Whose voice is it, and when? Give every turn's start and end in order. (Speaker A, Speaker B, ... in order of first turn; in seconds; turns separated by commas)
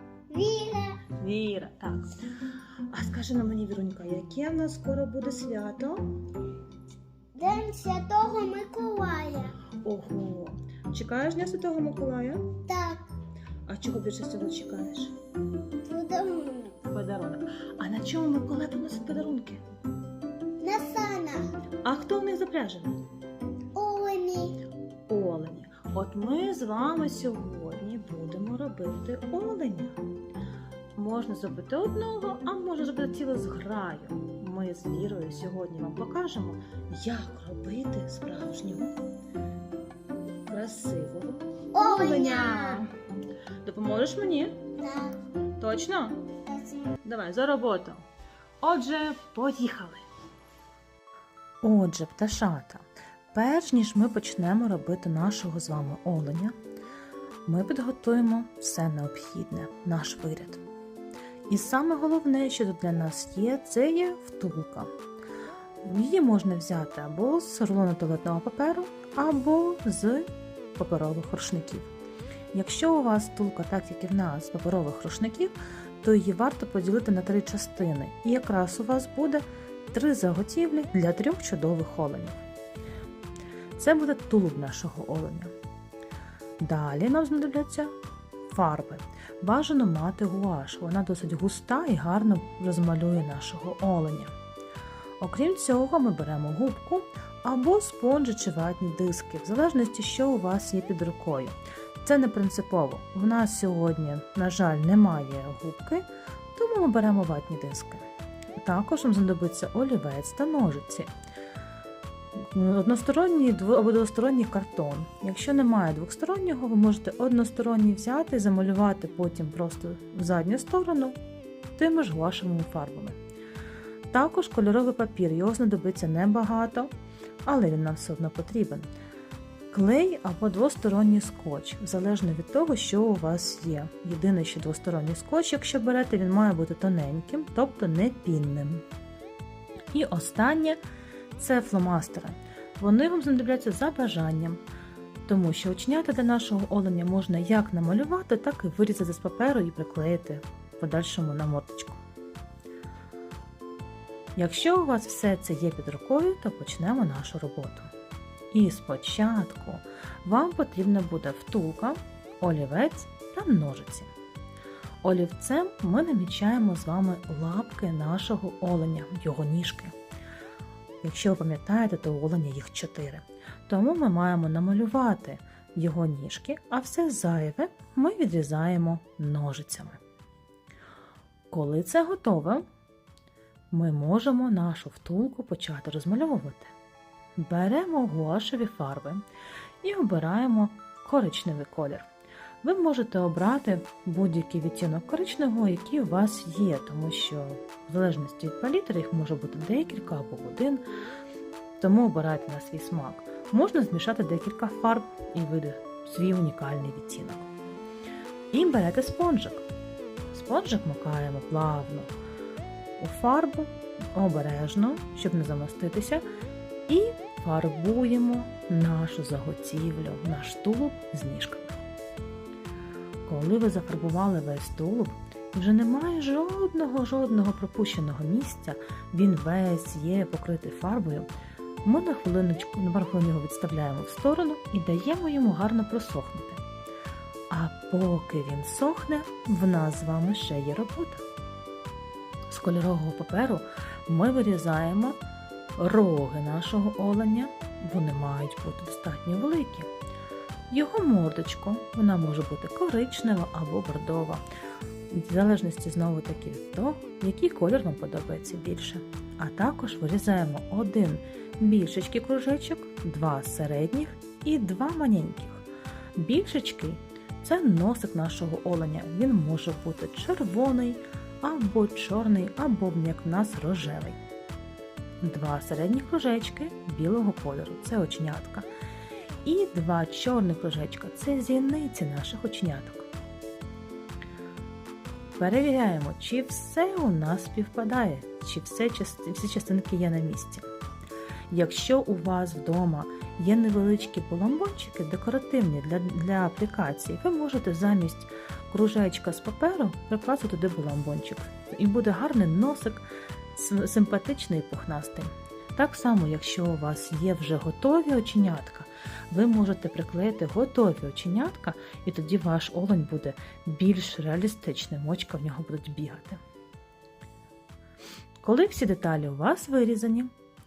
Speaker A: 0.3-1.0, Speaker B: 1.1-2.1, Speaker B: 2.9-6.1, Speaker A: 7.3-9.6, Speaker B: 9.8-12.5, Speaker A: 12.7-13.1, Speaker B: 13.7-15.2, Speaker A: 15.8-16.8, Speaker B: 16.9-19.6, Speaker A: 20.6-21.5, Speaker B: 21.8-23.0, Speaker A: 23.7-24.6, Speaker B: 25.1-30.0, Speaker B: 30.9-38.9, Speaker B: 40.5-42.9, Speaker A: 41.7-42.8, Speaker B: 43.6-44.6, Speaker A: 44.8-45.2, Speaker B: 45.6-46.2, Speaker A: 46.5-47.0, Speaker B: 47.0-48.0, Speaker B: 48.6-50.0, Speaker B: 51.6-56.5, Speaker B: 57.5-60.6, Speaker B: 61.5-64.9, Speaker B: 65.8-71.9, Speaker B: 72.5-82.4, Speaker B: 83.8-85.5, Speaker B: 86.6-87.9, Speaker B: 88.5-94.3, Speaker B: 95.2-108.0, Speaker B: 108.6-111.1, Speaker B: 112.5-121.2, Speaker B: 121.8-123.2, Speaker B: 124.1-126.9, Speaker B: 127.4-128.9, Speaker B: 129.7-138.8, Speaker B: 139.9-140.8, Speaker B: 141.3-144.6, Speaker B: 145.2-152.0, Speaker B: 154.3-157.9, Speaker B: 158.5-164.1, Speaker B: 165.0-169.9, Speaker B: 171.0-180.0, Speaker B: 181.5-182.6, Speaker B: 183.7-186.7, Speaker B: 187.4-189.2, Speaker B: 189.8-192.1, Speaker B: 192.6-200.8, Speaker B: 201.8-207.5, Speaker B: 208.5-209.7, Speaker B: 210.3-212.1, Speaker B: 213.0-216.2, Speaker B: 216.9-221.8, Speaker B: 223.2-231.3, Speaker B: 231.8-236.6, Speaker B: 237.5-241.2, Speaker B: 242.5-245.2, Speaker B: 245.8-249.9, Speaker B: 250.7-254.4, Speaker B: 255.1-274.2, Speaker B: 275.2-278.7, Speaker B: 279.4-283.1, Speaker B: 285.4-290.6, Speaker B: 291.5-316.4, Speaker B: 318.4-320.3